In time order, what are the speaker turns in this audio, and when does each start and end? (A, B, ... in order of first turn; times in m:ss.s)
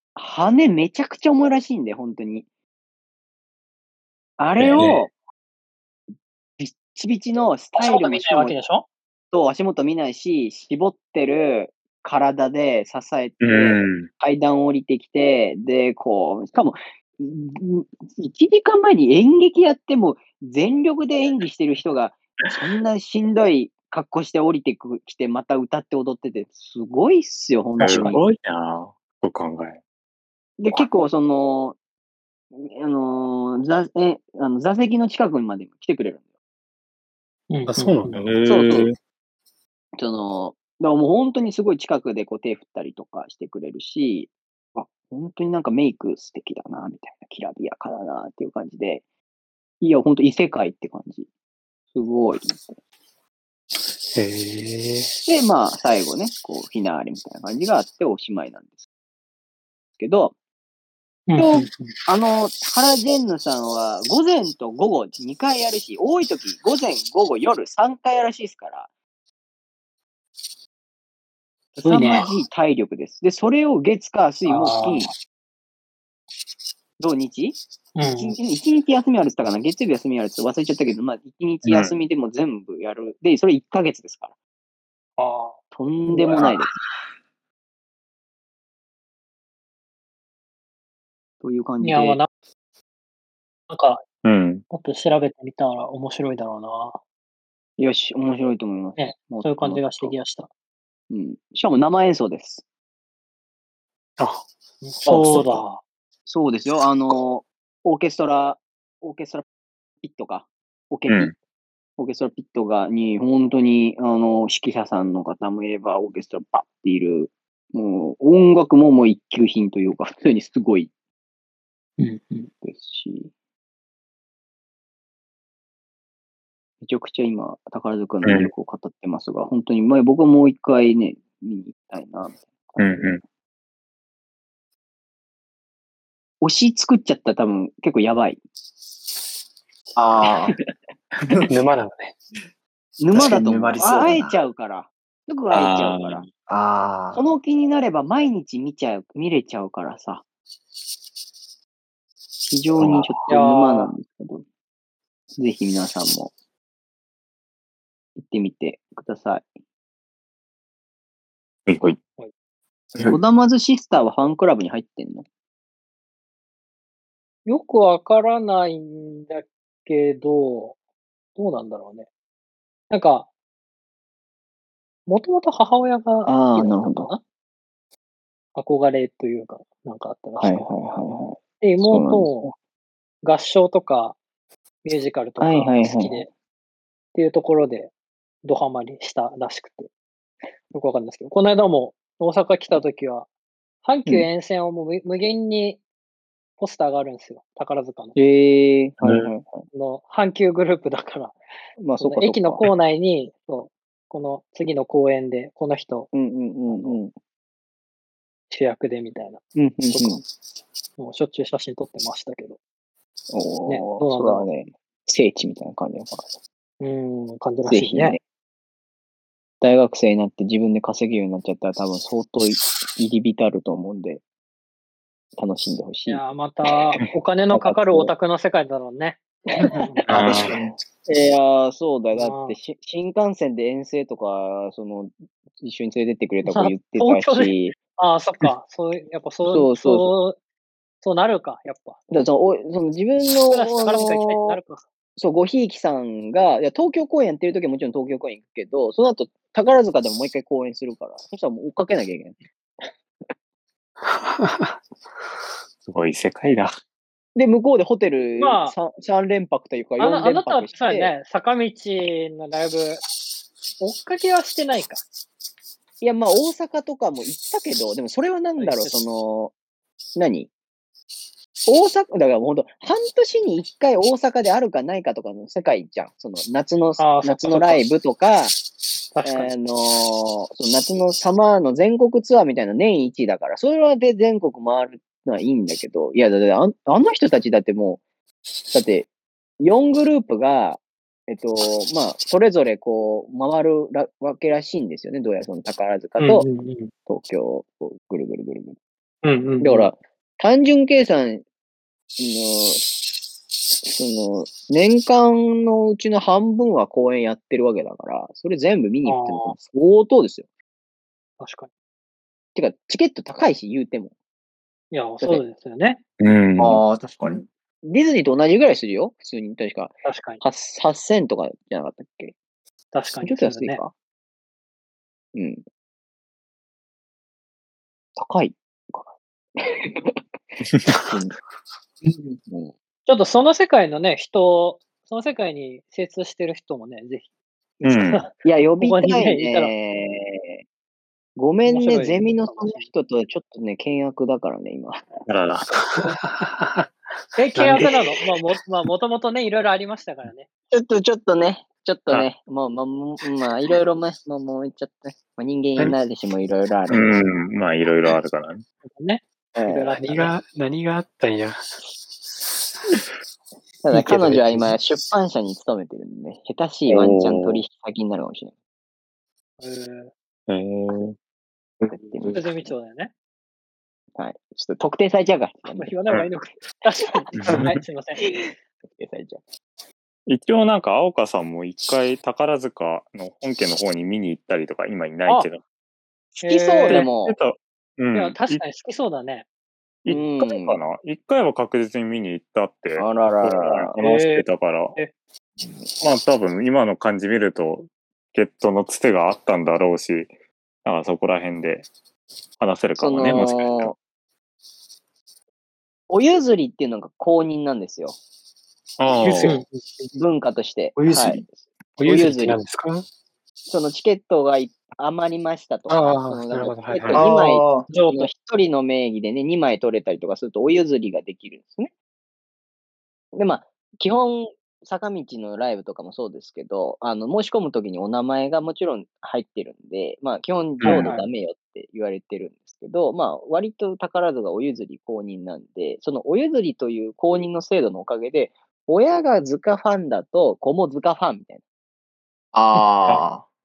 0:00.2-0:02.5 A
0:04.4-0:05.1 A
0:04.6-0:05.0 B
0:06.6-0:08.6 A
0:07.8-0:08.9 C
0:09.3-0:28.2 A
0:13.4-0:14.1 B
0:27.8-0:29.8 B
0:30.6-0:31.8 A
0:32.5-0:36.2 A
0:37.5-0:38.2 C
0:37.7-0:38.2 D
0:38.1-0:39.0 B
0:38.4-0:38.9 A
0:40.0-0:49.0 A
0:49.8-0:51.3 A
0:51.9-0:52.8 A
0:54.1-0:55.1 D
0:55.3-0:58.9 A
1:00.0-1:00.4 A
1:01.3-1:01.7 C
1:01.4-1:08.9 A
1:11.8-1:12.3 C
1:11.8-1:15.1 A
1:14.5-1:15.1 C
1:17.0-1:17.6 A
1:18.0-1:18.4 C
1:18.2-1:24.3 A
1:21.6-1:21.9 B
1:25.2-1:25.6 C
1:25.7-1:26.7 A
1:26.1-1:26.5 C
1:31.4-1:32.2 A
1:31.8-1:32.3 C
1:33.7-1:34.0 C
1:34.2-1:34.6 B
1:34.7-1:37.0 C
1:37.8-1:40.2 A
1:39.0-1:40.5 C
1:41.1-1:42.6 A
1:44.2-1:44.5 D
1:44.8-1:45.8 C
1:45.1-1:45.6 E
1:46.3-1:49.4 A
1:50.0-1:51.4 A
1:52.0-2:00.9 A
2:02.0-2:02.5 C
2:02.6-2:03.3 A
2:06.8-2:13.2 A
2:08.2-2:08.5 B
2:12.8-2:13.2 B
2:16.4-2:18.4 A
2:20.0-2:20.6 E
2:21.5-2:22.2 D
2:23.0-2:26.2 A
2:23.1-2:24.3 E
2:25.5-2:26.3 B
2:26.5-2:27.2 E
2:27.1-2:30.2 A
2:32.4-2:34.4 A
2:33.3-2:33.9 C
2:35.4-2:36.3 A
2:38.2-2:39.5 A
2:41.7-2:42.0 B
2:43.1-2:45.2 A
2:47.5-2:50.8 C
2:51.4-2:52.1 C
2:52.9-2:53.3 C
2:55.1-2:57.2 C
2:56.3-2:57.1 A
2:58.6-3:00.7 C
3:00.4-3:02.3 A
3:01.6-3:02.5 C
3:03.2-3:04.2 C
3:04.8-3:06.3 C
3:05.4-3:06.3 A
3:07.1-3:07.9 C
3:08.4-3:09.9 C
3:10.7-3:13.3 C
3:13.8-3:15.8 C
3:16.6-3:18.2 C
3:18.2-3:19.6 A
3:19.7-3:21.4 C
3:21.8-3:22.6 A
3:22.0-3:26.1 C
3:26.1-3:27.1 A
3:26.7-3:27.0 C
3:28.5-3:30.2 C
3:29.6-3:30.2 A
3:31.0-3:32.6 C
3:33.3-3:36.4 A
3:33.7-3:34.5 C
3:36.8-3:38.2 C
3:37.7-3:38.2 A
3:39.6-3:44.2 A
3:45.4-3:46.2 A
3:46.1-3:50.1 C
3:47.5-3:48.1 A
3:50.1-3:50.6 B
3:50.1-3:50.8 E
3:51.1-3:57.8 A
3:52.2-3:52.6 C
3:56.5-4:00.4 C
3:59.5-4:00.1 A
4:01.0-4:02.0 C
4:02.1-4:04.6 A
4:03.5-4:04.8 C
4:05.2-4:12.4 A
4:14.1-4:14.8 D
4:15.9-4:16.7 B
4:17.4-4:21.1 A
4:18.4-4:18.8 C
4:20.0-4:23.0 C
4:23.8-4:25.0 C
4:26.0-4:29.5 A
4:28.6-4:28.9 C
4:30.2-4:30.5 A
4:31.7-4:38.6 A
4:37.0-4:37.8 C
4:39.1-4:39.5 C
4:39.2-4:48.0 A
4:48.7-4:49.1 A
4:49.6-4:56.4 A
4:56.2-4:56.9 C
4:57.1-4:58.8 A
4:59.2-4:59.9 C
4:59.6-5:01.4 A
5:02.2-5:03.1 A
5:03.8-5:10.5 A
5:09.0-5:09.6 C
5:11.4-5:11.7 C
5:12.6-5:14.1 A
5:14.9-5:16.0 C
5:16.2-5:16.8 B
5:16.6-5:17.4 E
5:17.2-5:22.3 A
5:20.0-5:20.4 C
5:22.9-5:23.8 C
5:23.2-5:23.9 A
5:25.3-5:25.6 A
5:28.2-5:30.2 A
5:31.0-5:31.4 A
5:32.0-5:32.7 A
5:33.1-5:37.3 C
5:37.8-5:39.7 C
5:37.8-5:38.2 B
5:38.4-5:40.6 A
5:41.4-5:45.1 A
5:41.7-5:42.9 C
5:45.3-5:45.7 B
5:45.9-5:46.9 D
5:47.4-5:50.5 C
5:47.6-5:47.9 D
5:50.7-5:57.2 A
5:56.9-5:58.6 B
5:58.8-6:00.4 C
5:59.6-5:59.9 A
6:00.0-6:01.8 D
6:03.8-6:08.5 A
6:03.9-6:04.7 D
6:06.9-6:07.6 B
6:09.6-6:10.1 C
6:10.5-6:11.2 B
6:11.8-6:12.4 B
6:11.9-6:12.7 A
6:12.3-6:13.1 C
6:14.2-6:15.9 A
6:15.7-6:18.2 C
6:17.4-6:17.8 B
6:18.2-6:19.4 A
6:20.3-6:25.6 B
6:26.4-6:28.6 B
6:26.4-6:27.1 C
6:26.5-6:27.4 A
6:28.1-6:29.5 C
6:30.0-6:35.0 B
6:30.1-6:30.8 A
6:33.0-6:33.9 A
6:34.0-6:34.4 C
6:36.0-6:40.3 B
6:40.8-6:41.9 B
6:42.6-6:43.9 B
6:43.0-6:44.0 A
6:46.1-6:48.2 A
6:49.0-6:49.5 B
6:49.2-6:50.1 D
6:50.1-6:52.6 A
6:51.0-6:51.4 E
6:52.0-6:53.1 D
6:53.7-7:01.9 A
6:55.9-6:57.2 D
6:57.1-6:57.9 E
6:57.9-6:58.3 C
7:03.4-7:21.6 A
7:10.8-7:11.1 B
7:10.8-7:11.2 C
7:22.5-7:23.4 E
7:22.7-7:23.2 C